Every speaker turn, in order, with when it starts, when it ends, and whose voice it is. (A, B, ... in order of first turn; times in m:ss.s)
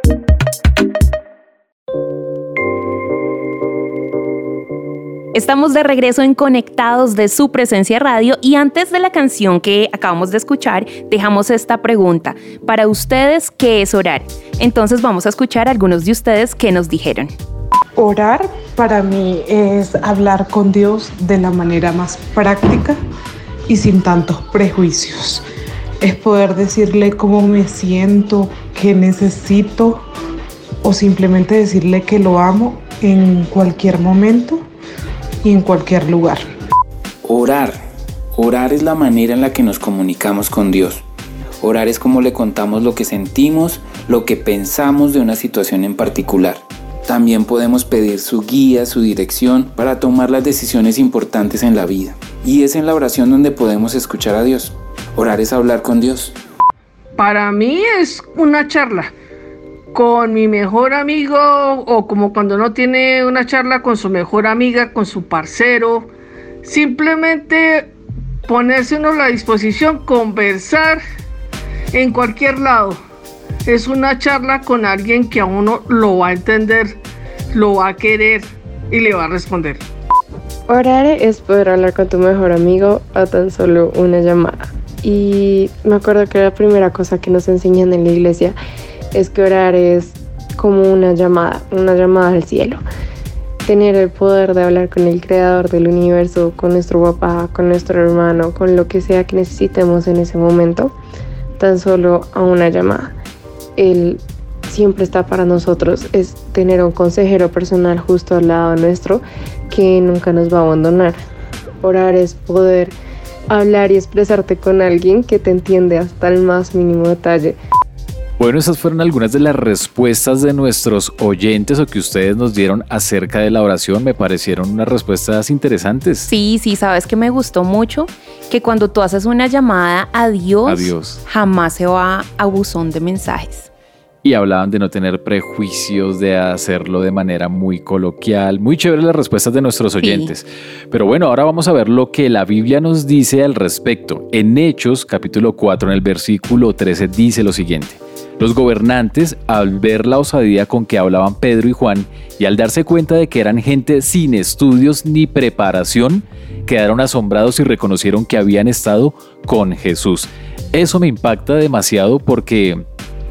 0:05.3-0:17.3 A
0:18.0-0:23.0 B
0:23.7-0:25.4 B
0:26.0-0:30.0 B
0:30.8-0:34.6 B
0:35.4-0:36.4 B
0:37.2-0:37.8 C
0:38.3-0:41.0 C
0:41.6-0:56.4 C
0:57.2-0:59.1 D
0:59.9-1:06.1 D
1:06.6-1:07.9 D
1:08.5-1:11.0 D
1:11.9-1:13.0 D
1:13.6-1:17.0 D
1:17.5-1:19.8 D
1:20.7-1:28.6 E
1:29.1-1:32.8 E
1:33.6-1:40.9 E
1:41.6-1:43.1 E
1:43.8-1:51.2 E
1:51.8-1:52.9 E
1:53.5-1:57.6 E
1:58.4-2:06.3 F
2:06.3-2:13.7 A
2:10.6-2:11.2 F
2:14.2-2:42.8 F
2:20.0-2:20.3 A